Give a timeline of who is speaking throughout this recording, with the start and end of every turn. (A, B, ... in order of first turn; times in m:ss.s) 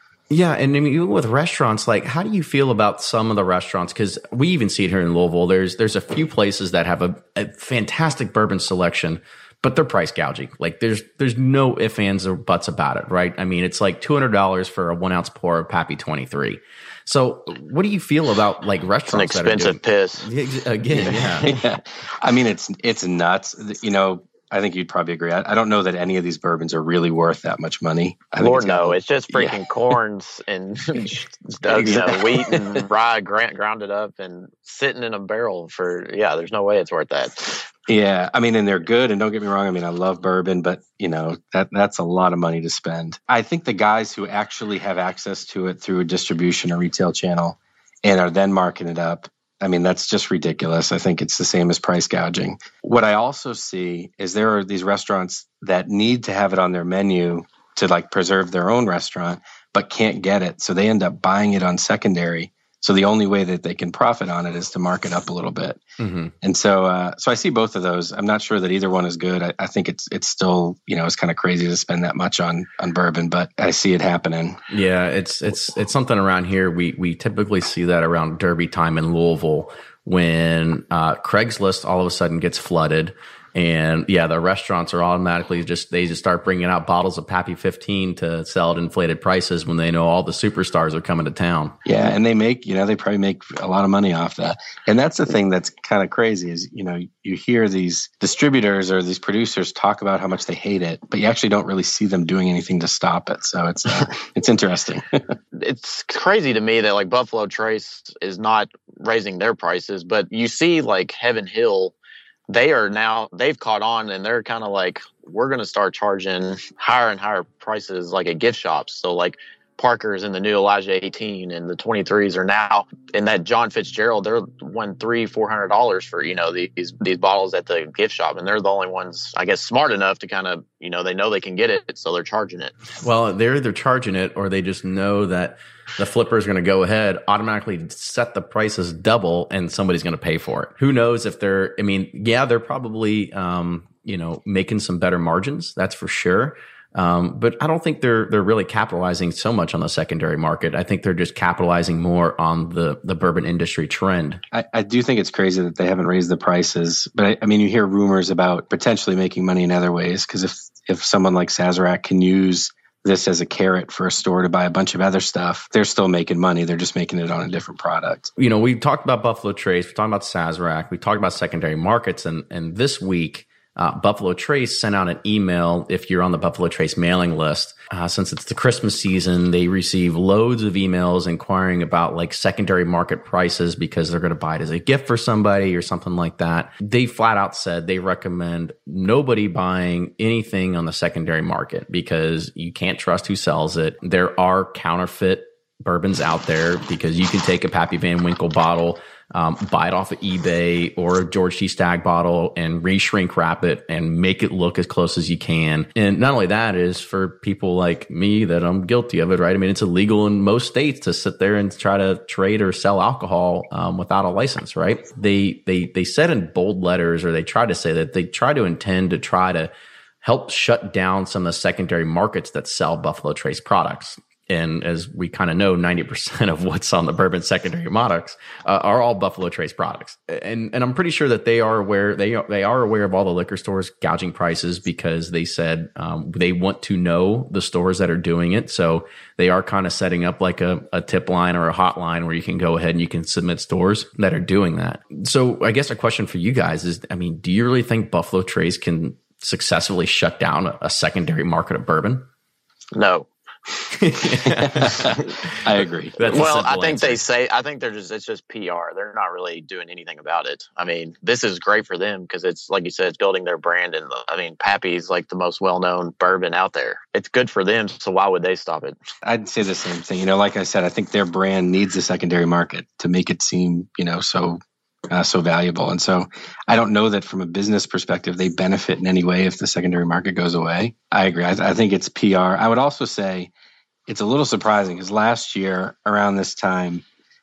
0:00.3-0:21.5 A
0:19.1-0:20.3 B
0:21.1-0:29.6 C
0:28.4-0:37.7 B
0:31.6-0:32.8 C
0:37.9-1:05.8 C
1:06.0-1:06.3 A
1:06.4-1:14.6 C
1:14.7-1:31.8 A
1:31.8-1:45.2 C
1:45.6-1:52.0 B
1:52.5-2:12.7 B
2:13.0-2:34.4 A
2:34.5-2:48.3 C
2:48.4-3:39.7 A
3:40.2-4:12.3 A
4:12.9-4:13.8 B
4:13.9-4:15.5 A
4:14.8-4:15.1 C
4:15.6-4:16.2 C
4:16.2-4:17.2 A
4:16.3-4:29.0 B
4:29.2-4:34.6 C
4:35.1-4:43.5 C
4:44.1-4:47.0 C